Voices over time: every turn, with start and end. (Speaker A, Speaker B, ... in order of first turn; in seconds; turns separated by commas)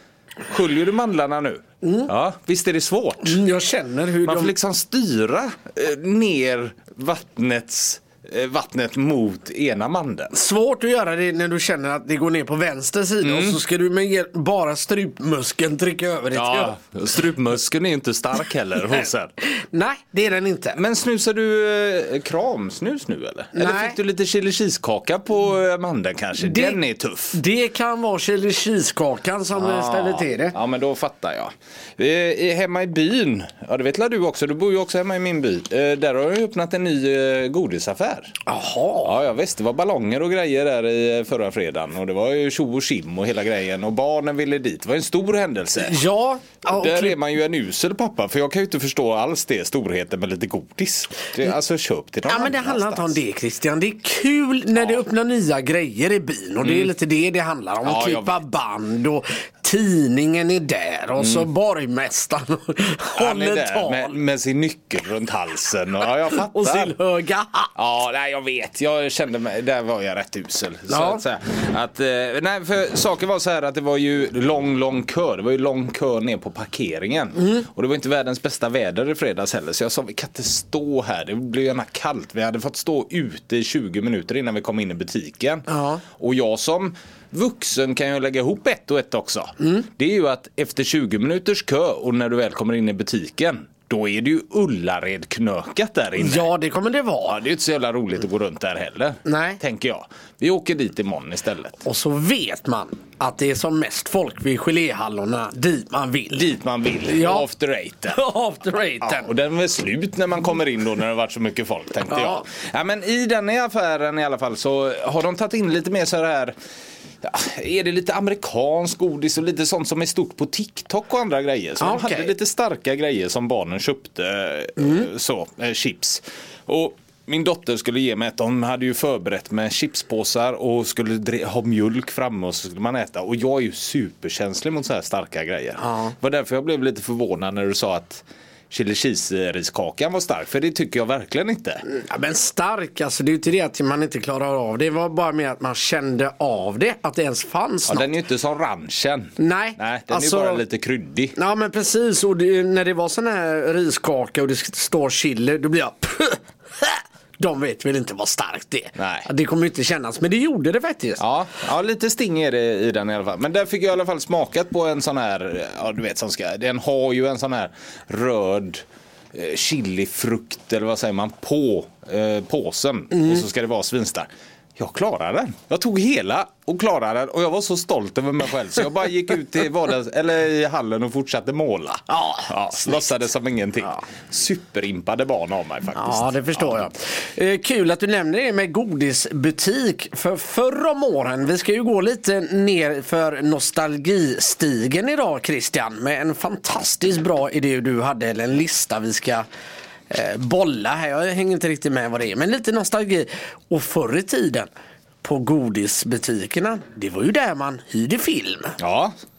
Speaker A: 0.5-3.4, Speaker B: 1.8-2.1, Speaker B: 3.2-4.5, Speaker A: 4.2-10.3, Speaker B: 10.3-16.8, Speaker A: 13.2-13.6, Speaker A: 16.3-19.3, Speaker B: 19.4-20.8, Speaker A: 20.7-27.4, Speaker B: 23.5-24.0, Speaker B: 26.4-26.8, Speaker B: 27.3-30.6, Speaker A: 29.5-38.3, Speaker B: 38.5-39.1, Speaker A: 39.0-46.0, Speaker B: 45.8-47.2, Speaker A: 46.6-53.2, Speaker B: 52.2-64.1, Speaker A: 54.7-55.0, Speaker A: 56.6-56.9, Speaker A: 57.8-58.4, Speaker A: 61.2-61.5, Speaker A: 63.1-66.9, Speaker B: 66.3-67.7, Speaker A: 67.8-96.5, Speaker B: 70.9-71.2, Speaker B: 85.7-86.0, Speaker B: 89.6-89.8, Speaker B: 96.2-97.4, Speaker A: 97.2-101.8, Speaker B: 99.2-99.6, Speaker B: 101.8-106.5, Speaker A: 106.3-108.2, Speaker B: 107.0-107.5, Speaker B: 108.1-109.3, Speaker A: 109.0-116.5, Speaker B: 112.1-112.4, Speaker A: 117.2-141.8, Speaker B: 121.8-122.3, Speaker B: 124.8-125.0, Speaker B: 135.8-136.1, Speaker B: 141.8-148.1, Speaker A: 147.9-151.3, Speaker B: 149.4-150.6, Speaker B: 151.3-161.2, Speaker A: 158.9-159.3, Speaker A: 161.2-186.8, Speaker B: 173.1-173.4, Speaker B: 182.1-182.5, Speaker B: 185.9-199.4, Speaker B: 200.1-204.7, Speaker B: 205.2-208.8, Speaker A: 208.8-209.1